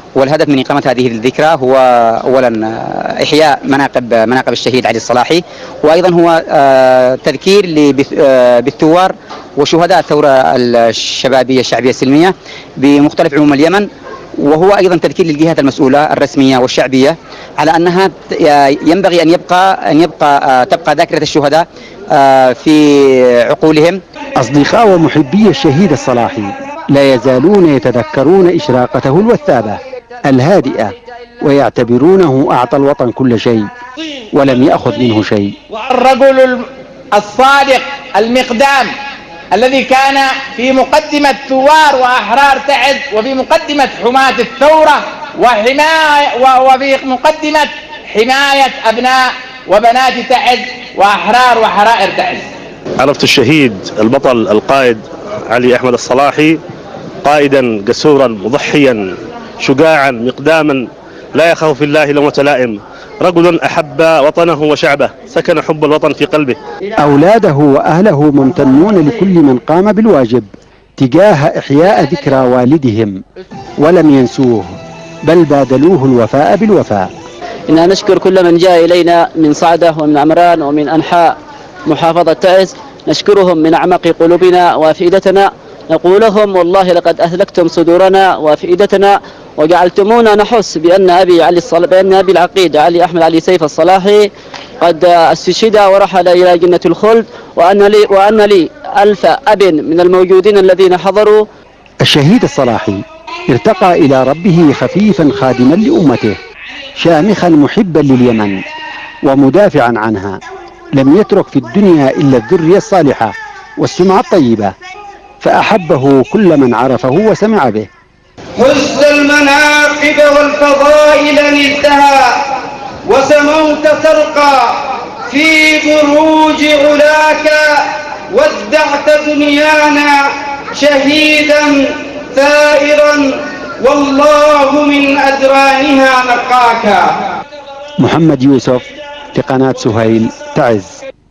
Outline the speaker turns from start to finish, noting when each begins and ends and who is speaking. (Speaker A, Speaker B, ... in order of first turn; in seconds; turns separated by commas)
Speaker A: 0.1-24.0, Speaker B: 24.4-33.7, Speaker B: 34.3-35.6, Speaker C: 35.7-38.9, Speaker C: 39.5-52.5, Speaker D: 53.0-56.6, Speaker D: 57.2-59.1, Speaker D: 59.6-66.6, Speaker B: 67.0-73.2, Speaker B: 73.8-77.1, Speaker E: 77.7-81.3, Speaker E: 81.9-101.5, Speaker B: 102.0-106.4, Speaker B: 107.0-108.6, Speaker B: 109.2-110.4, Speaker B: 111.0-114.7, Speaker B: 115.4-117.9, Speaker F: 118.6-137.3, Speaker B: 138.0-141.0